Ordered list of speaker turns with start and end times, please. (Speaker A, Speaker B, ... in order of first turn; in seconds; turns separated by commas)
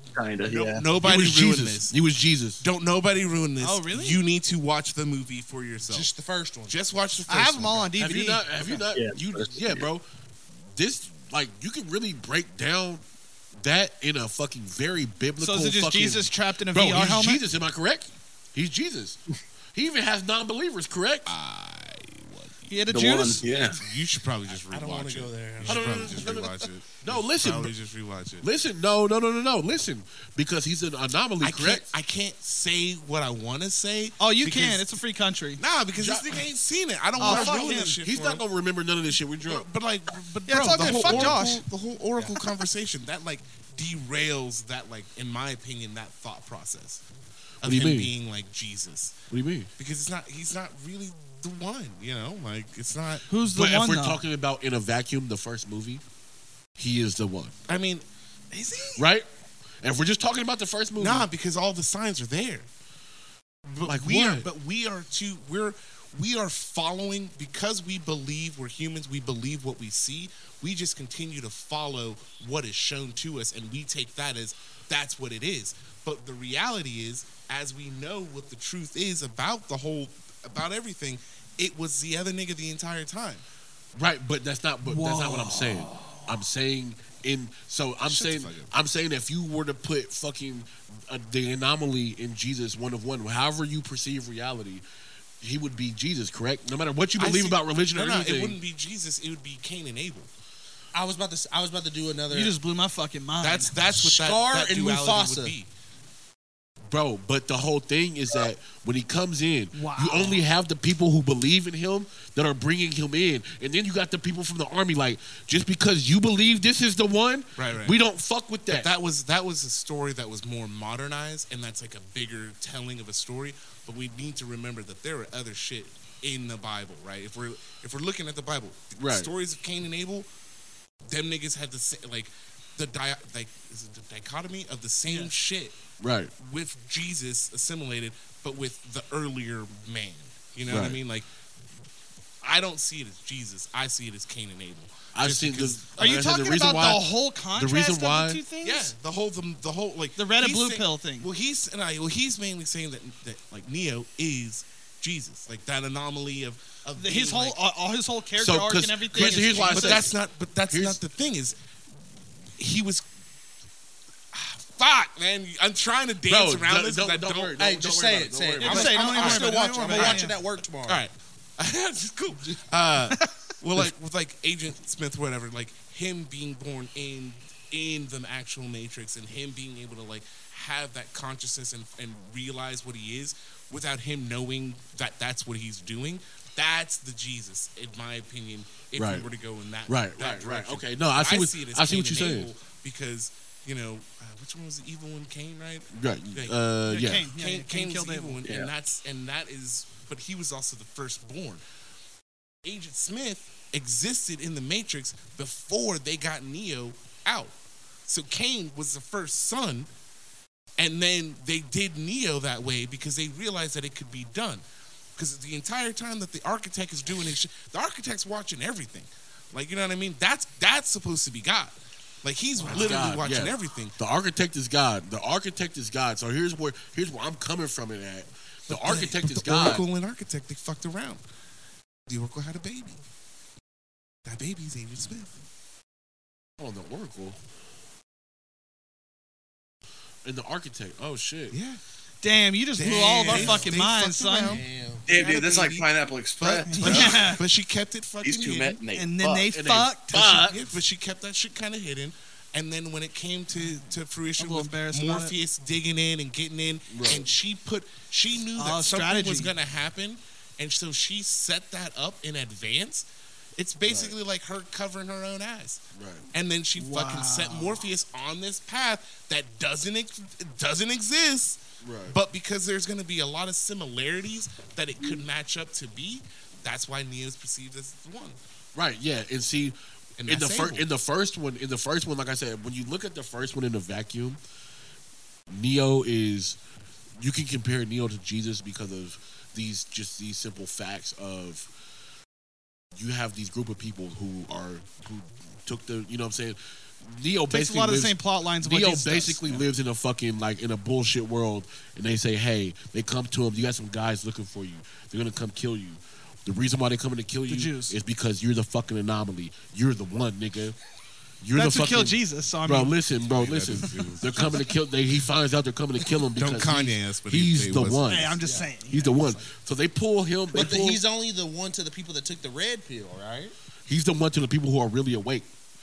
Speaker A: 0.1-0.9, Speaker B: 0.5-1.9, Speaker C: 0.9-2.6, Speaker B: 2.6-6.1, Speaker D: 3.6-4.2, Speaker E: 5.9-6.8, Speaker B: 6.7-7.9, Speaker D: 7.3-8.8, Speaker C: 8.0-10.1, Speaker A: 8.9-9.9, Speaker C: 10.7-13.0, Speaker C: 13.6-19.2, Speaker D: 15.4-17.4, Speaker C: 19.7-21.3, Speaker B: 21.3-22.9, Speaker D: 22.7-23.5, Speaker A: 22.9-23.8, Speaker B: 23.7-28.5, Speaker E: 24.7-26.4, Speaker C: 25.6-27.7, Speaker C: 28.4-31.9, Speaker B: 31.4-34.9, Speaker D: 34.2-35.6, Speaker B: 35.6-38.4, Speaker C: 36.0-36.4, Speaker D: 37.2-38.0, Speaker C: 37.2-39.7, Speaker B: 39.4-47.0, Speaker D: 40.5-41.6, Speaker C: 40.8-41.4, Speaker B: 47.6-49.2, Speaker C: 47.6-48.1, Speaker C: 49.3-49.7, Speaker B: 49.8-53.3, Speaker D: 53.3-54.2, Speaker C: 53.5-56.0, Speaker C: 56.8-57.5, Speaker B: 57.7-58.0, Speaker D: 58.5-59.0, Speaker C: 59.0-59.3, Speaker C: 59.8-61.3, Speaker B: 61.0-62.7, Speaker B: 63.7-83.5, Speaker C: 63.9-64.5, Speaker C: 84.0-94.8, Speaker D: 84.8-86.3, Speaker B: 88.0-88.7, Speaker C: 95.4-98.6, Speaker B: 97.2-100.3, Speaker E: 100.9-102.6, Speaker D: 102.3-103.7, Speaker B: 103.4-105.7, Speaker E: 103.9-105.6, Speaker C: 106.9-118.9, Speaker D: 109.7-110.4, Speaker B: 117.6-118.0, Speaker B: 118.7-130.3, Speaker C: 129.0-129.3, Speaker B: 131.1-135.8, Speaker D: 135.1-135.3, Speaker C: 136.0-136.3, Speaker B: 136.4-141.3, Speaker C: 140.7-141.0, Speaker B: 142.4-145.9, Speaker C: 145.1-148.4, Speaker D: 146.0-148.9, Speaker B: 148.6-157.6, Speaker D: 150.2-151.3, Speaker D: 157.0-160.1, Speaker C: 158.4-160.2, Speaker B: 159.1-161.6, Speaker C: 160.7-161.0, Speaker B: 162.6-163.0, Speaker B: 164.3-167.6, Speaker C: 166.3-169.2, Speaker E: 167.6-171.0, Speaker D: 168.6-170.4, Speaker B: 169.2-170.3, Speaker B: 170.9-196.6, Speaker C: 189.0-189.3, Speaker C: 189.9-192.5, Speaker C: 195.9-197.3, Speaker D: 196.9-198.4, Speaker B: 197.2-201.6, Speaker A: 198.4-198.7, Speaker B: 202.6-207.6, Speaker B: 208.1-209.9, Speaker B: 210.8-214.6, Speaker B: 215.2-224.0, Speaker C: 222.6-229.8, Speaker B: 228.7-231.2, Speaker B: 232.1-233.0, Speaker B: 234.2-235.3, Speaker C: 236.6-237.4, Speaker C: 240.2-241.6, Speaker B: 241.5-241.8, Speaker D: 242.2-244.6, Speaker B: 242.8-245.9, Speaker E: 243.2-243.7, Speaker E: 244.4-245.1, Speaker A: 245.1-247.4, Speaker B: 246.4-248.8, Speaker D: 246.7-247.4, Speaker A: 248.2-249.5, Speaker D: 248.9-250.5, Speaker C: 249.5-250.6, Speaker B: 250.2-263.1, Speaker D: 254.4-255.3, Speaker C: 256.9-257.2, Speaker D: 258.6-259.5, Speaker B: 263.6-278.4, Speaker C: 263.9-264.1, Speaker C: 265.9-266.3, Speaker D: 266.8-267.9, Speaker C: 271.8-272.2, Speaker C: 278.8-284.4, Speaker B: 280.2-280.9, Speaker C: 285.5-286.6, Speaker C: 287.2-291.7, Speaker C: 293.0-310.8, Speaker D: 297.5-299.6, Speaker D: 307.5-307.9, Speaker C: 311.4-318.4, Speaker D: 311.6-313.0, Speaker B: 313.2-314.6, Speaker B: 316.4-318.3, Speaker D: 318.1-319.5, Speaker E: 318.4-318.7, Speaker C: 318.9-321.0, Speaker E: 320.5-323.6, Speaker C: 323.9-325.5